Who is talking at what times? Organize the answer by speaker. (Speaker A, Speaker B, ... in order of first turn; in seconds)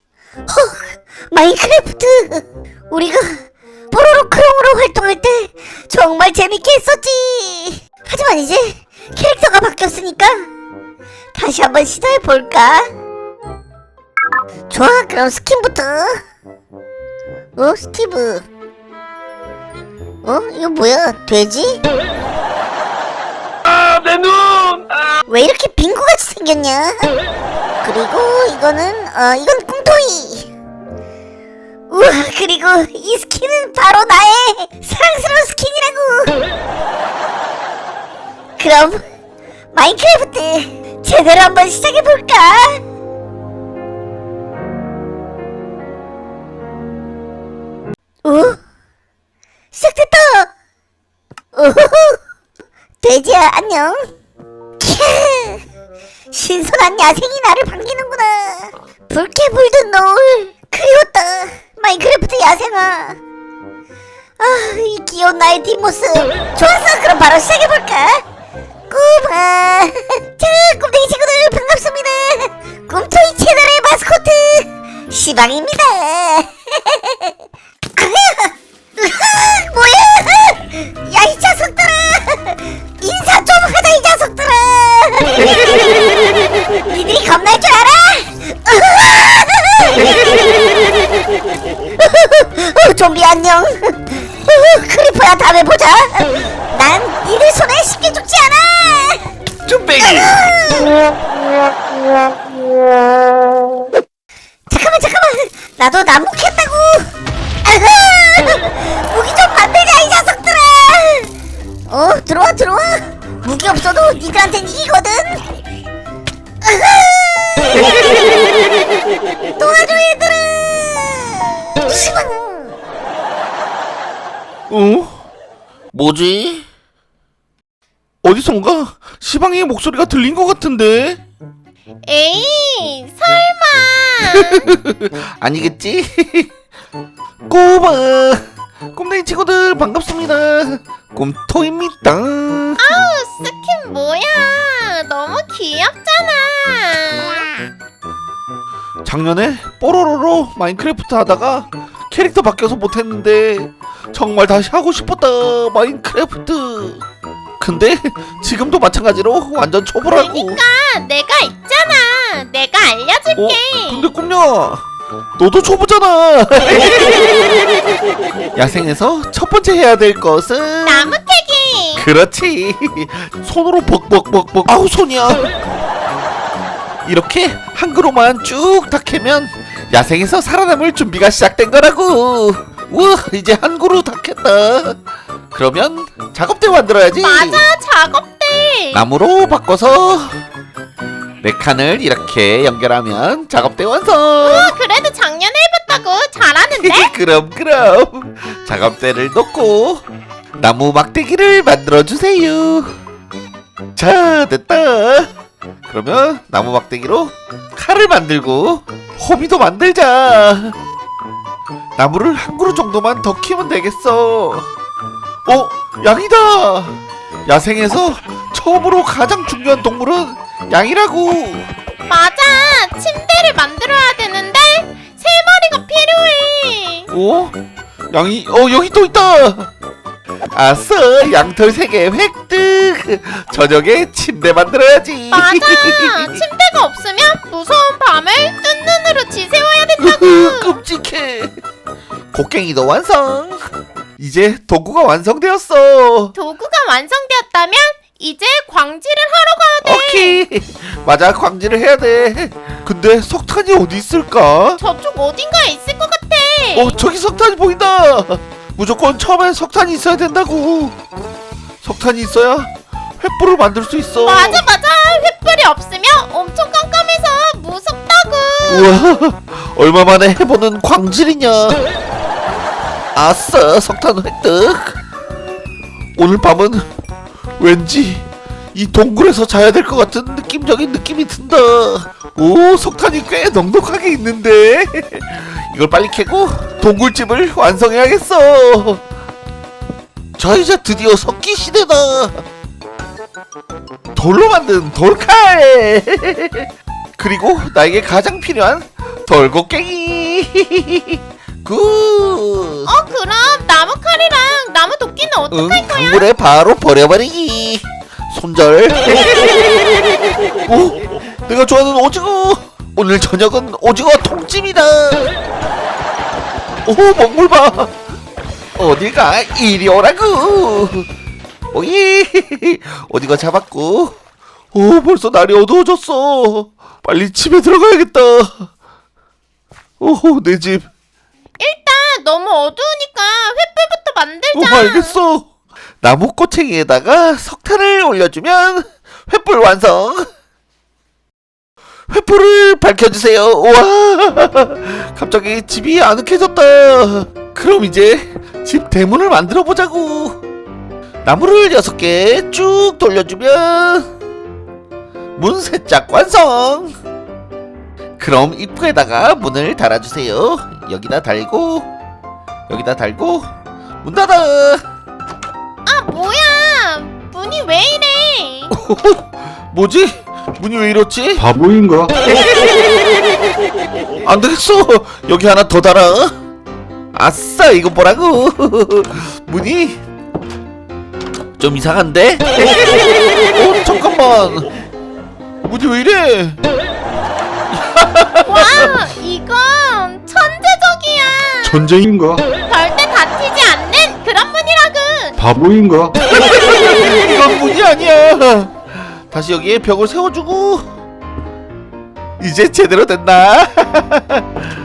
Speaker A: 0.5-3.3, 3.9-10.4, 11.3-12.9, 14.7-16.2, 17.6-18.5, 20.2-21.8, 25.3-27.1, 27.8-30.5, 31.9-36.4, 38.6-39.0, 39.7-42.8, 48.2-48.6, 49.7-50.5, 51.5-52.2, 53.0-54.1, 54.8-55.6, 56.3-63.2, 64.4-68.2, 68.9-77.3, 78.0-85.7, 86.9-90.1, 92.0-99.3, 100.0-100.9, 104.7-107.1, 107.6-111.3, 111.9-115.4, 116.6-117.9, 119.6-122.7
Speaker B: 99.7-100.4, 124.7-125.2, 125.9-126.7, 128.2-131.2, 134.4-136.5, 137.5-138.4, 138.9-143.0, 149.0-157.0, 157.6-160.6, 163.3-164.8, 165.4-167.2, 168.5-171.1, 171.9-175.4, 177.0-185.0, 185.5-187.6, 188.9-190.4, 191.4-194.7, 196.8-200.0, 200.6-202.9, 203.9-205.3, 205.9-210.8, 212.0-214.7, 215.4-221.7, 227.1-227.5, 228.1-229.7, 230.5-236.3, 240.0-241.5, 242.3-243.7, 244.2-246.3, 249.8-254.8, 256.7-260.9, 261.8-264.6, 268.7-271.8, 273.1-275.0, 276.1-276.8, 277.6-289.0, 290.4-292.4, 294.1-302.9, 305.5-309.0, 310.6-315.3, 316.9-317.9, 318.8-321.1, 321.7-324.2, 324.7-328.7, 330.0-330.9, 334.5-335.5, 336.0-340.2, 342.1-350.4, 351.2-354.1, 355.4-356.9, 358.2-361.9, 362.7-363.5, 364.0-364.8, 368.7-371.4, 374.2-376.3, 377.1-380.0, 381.6-382.4, 383.5-384.7, 385.6-386.6, 387.7-388.9, 396.2-400.9, 402.4-404.6
Speaker C: 132.1-134.7, 142.8-147.5, 160.0-164.1, 170.8-172.0, 187.2-189.0, 194.4-197.1, 222.1-227.1, 235.3-240.8, 246.3-250.4, 254.8-257.0, 264.2-269.2, 302.9-306.3, 331.6-335.1, 365.9-368.7, 388.4-391.8, 392.7-395.4
Speaker D: 371.4-372.2, 391.6-392.4, 395.4-396.2